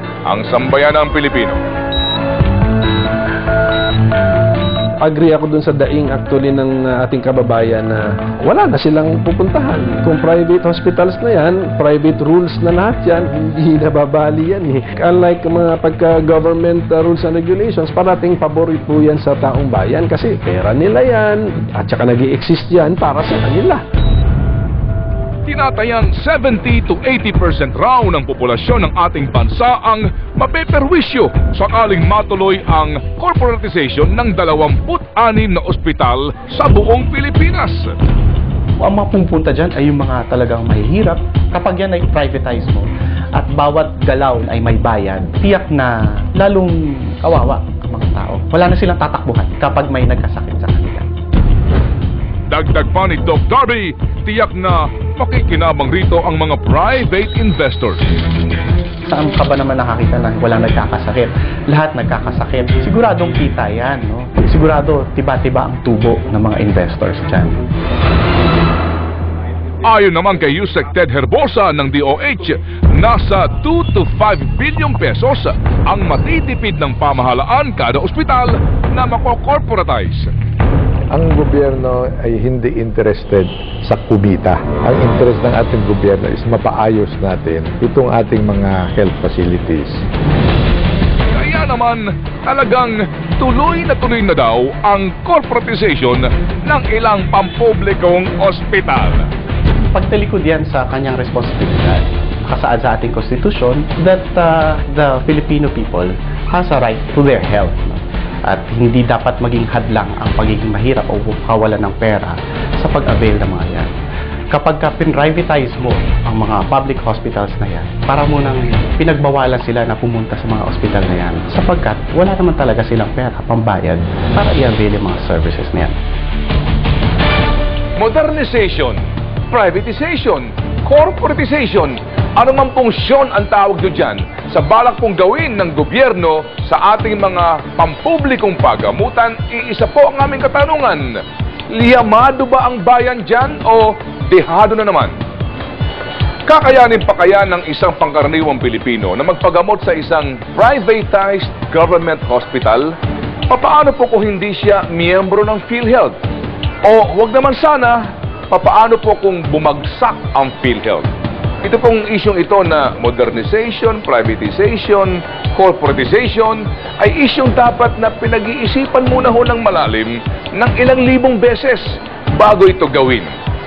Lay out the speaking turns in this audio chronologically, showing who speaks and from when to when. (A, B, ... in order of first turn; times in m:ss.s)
0:00.2-0:01.6 A
0:05.0-0:23.8 B
0:25.4-0:38.0 A
0:38.8-0:51.0 C
0:52.5-0:58.1 A
0:59.1-1:07.6 C
1:09.8-1:20.3 A
1:21.1-1:30.0 D
1:31.3-1:39.3 A
1:39.9-1:53.9 C
1:54.5-2:06.0 C
2:08.0-2:21.1 A
2:21.7-2:25.1 A
2:26.5-2:32.9 A
2:33.5-2:36.2 A
2:36.8-2:41.1 A
2:41.6-2:53.3 A